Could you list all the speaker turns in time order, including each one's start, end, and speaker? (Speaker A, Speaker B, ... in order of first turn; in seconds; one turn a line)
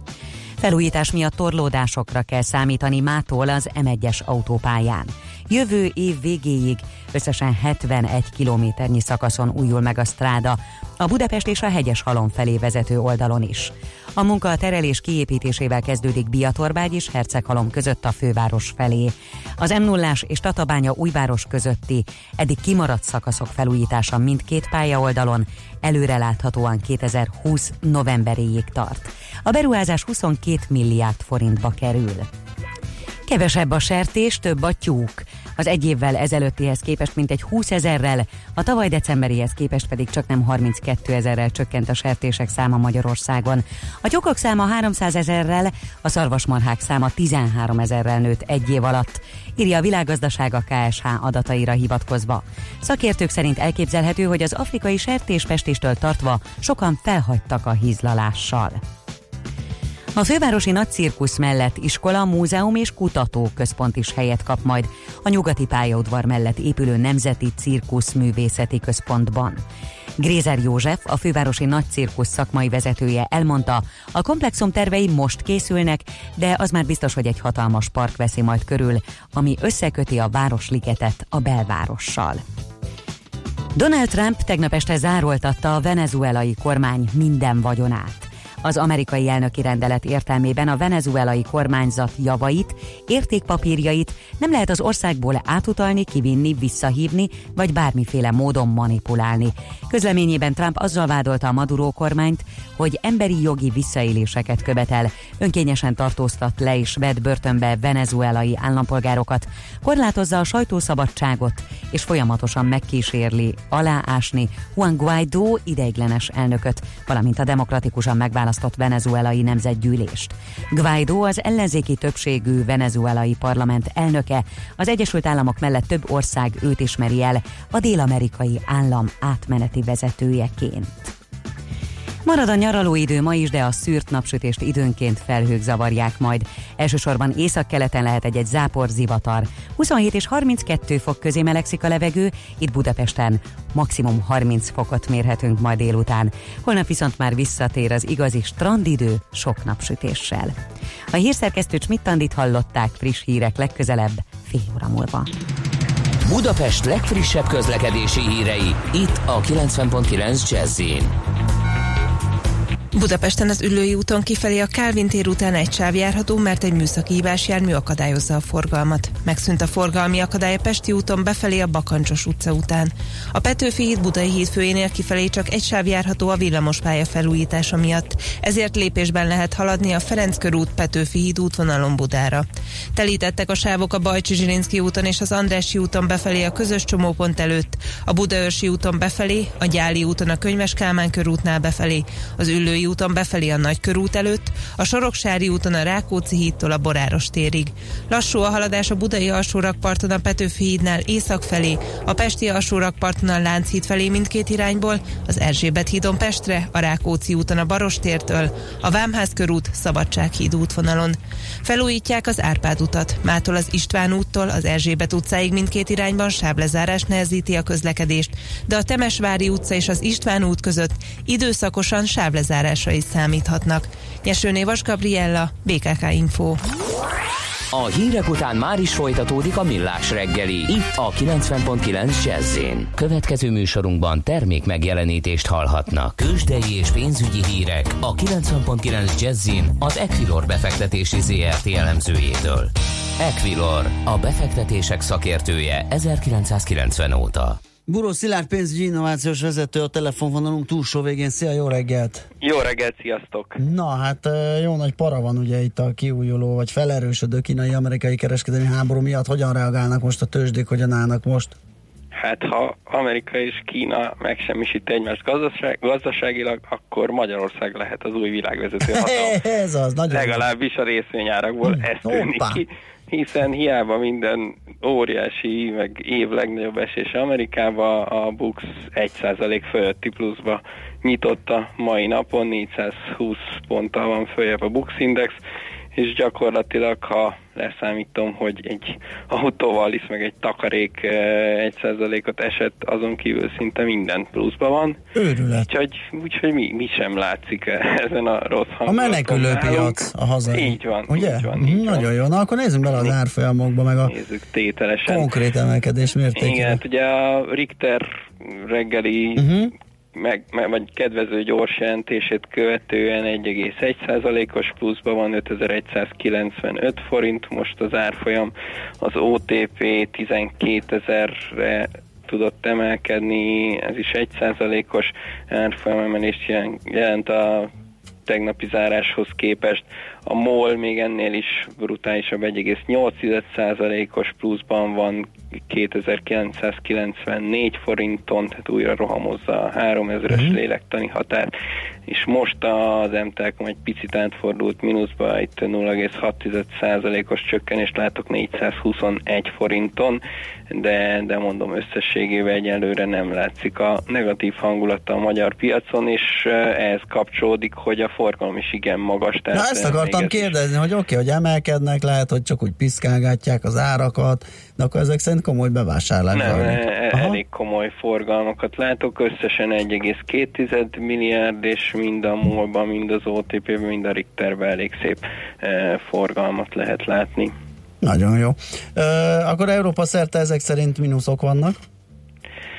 Speaker A: 0.6-32.3
Speaker A: 33.3-58.8
Speaker A: 60.1-69.6
Speaker A: 70.2-82.4
Speaker A: 83.7-131.1
Speaker A: 132.2-150.5
Speaker A: 151.1-155.3
Speaker B: 156.2-161.1
Speaker C: 162.9-226.6
Speaker B: 227.7-247.6
Speaker D: 247.9-252.3
Speaker E: 252.4-253.6
Speaker D: 253.6-261.6
Speaker E: 262.1-269.4
Speaker D: 268.9-270.4
Speaker E: 270.1-285.4
Speaker D: 271.6-272.6
Speaker E: 285.9-295.0
Speaker D: 295.1-295.7
Speaker E: 295.6-302.1
Speaker D: 298.8-304.1
Speaker E: 302.9-303.1
Speaker E: 304.0-305.3
Speaker D: 305.0-306.8
Speaker E: 306.3-309.5
Speaker D: 309.4-309.7
Speaker E: 310.1-327.7
Speaker E: 328.3-341.5
Speaker D: 340.3-340.6
Speaker E: 342.1-360.5
Speaker D: 359.5-367.4
Speaker E: 366.3-377.5
Speaker D: 378.0-381.8